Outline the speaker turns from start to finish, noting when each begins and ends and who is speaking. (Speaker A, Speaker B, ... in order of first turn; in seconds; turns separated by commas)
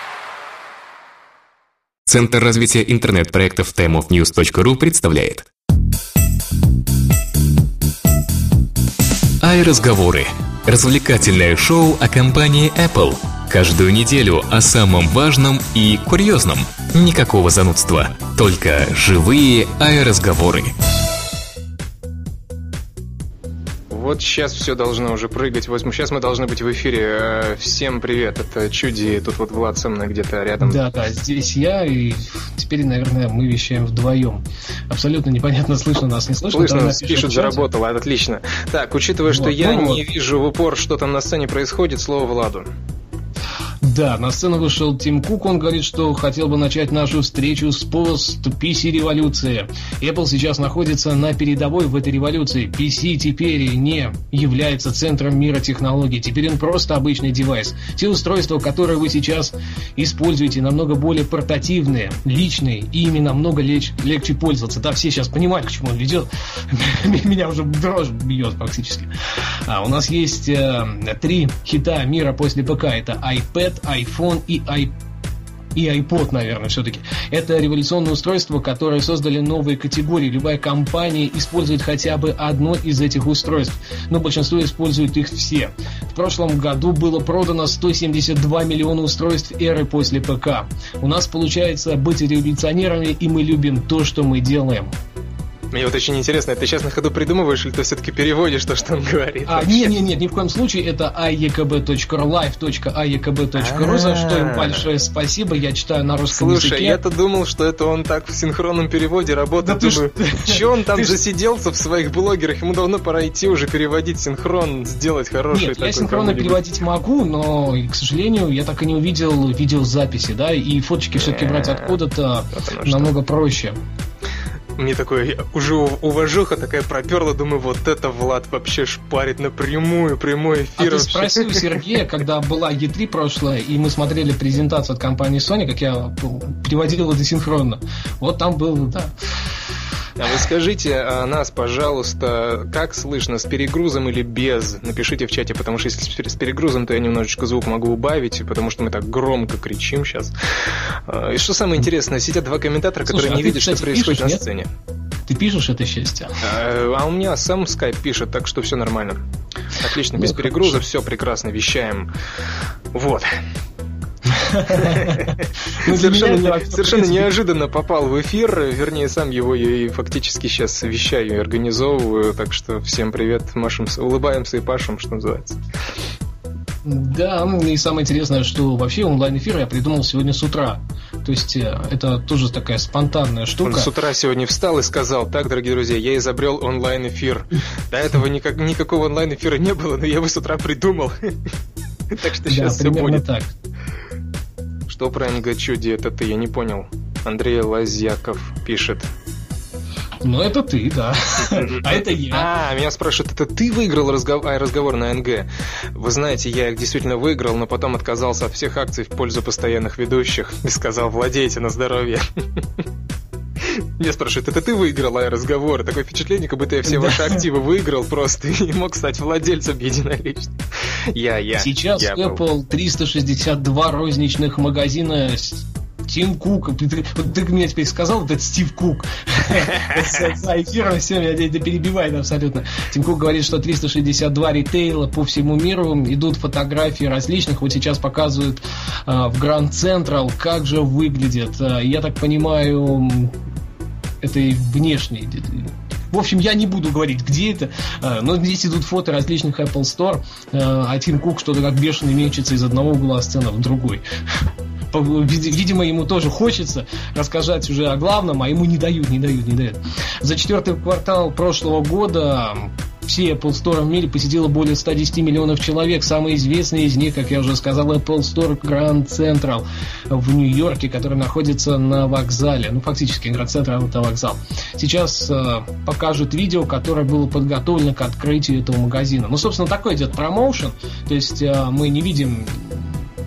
Speaker A: 2.1-5.5, Speaker A: 9.4-20.7, Speaker B: 23.9-30.8, Speaker C: 30.6-37.6, Speaker B: 36.5-42.7, Speaker C: 39.3-40.0, Speaker C: 43.8-69.1, Speaker C: 69.7-74.9, Speaker C: 75.8-95.0, Speaker B: 95.7-100.0, Speaker C: 99.5-107.0, Speaker B: 103.5-104.9, Speaker B: 106.3-116.6, Speaker C: 109.6-111.2, Speaker C: 115.5-123.8, Speaker B: 121.1-122.0, Speaker B: 122.5-123.1, Speaker B: 124.8-132.0, Speaker C: 130.8-139.1, Speaker B: 140.2-154.7, Speaker C: 153.1-154.4, Speaker C: 155.3-156.4, Speaker B: 156.4-159.2, Speaker B: 159.8-162.1, Speaker C: 160.2-160.8, Speaker B: 162.9-163.4, Speaker C: 164.3-167.3, Speaker B: 164.7-175.6, Speaker C: 176.8-183.9, Speaker B: 183.6-191.4, Speaker B: 192.1-193.2, Speaker C: 192.5-193.5, Speaker B: 194.9-199.1, Speaker C: 200.2-202.5, Speaker B: 201.5-212.8, Speaker B: 213.6-222.4, Speaker C: 216.9-217.4, Speaker C: 221.6-243.3, Speaker B: 229.5-230.3, Speaker C: 244.2-254.0, Speaker C: 254.9-283.1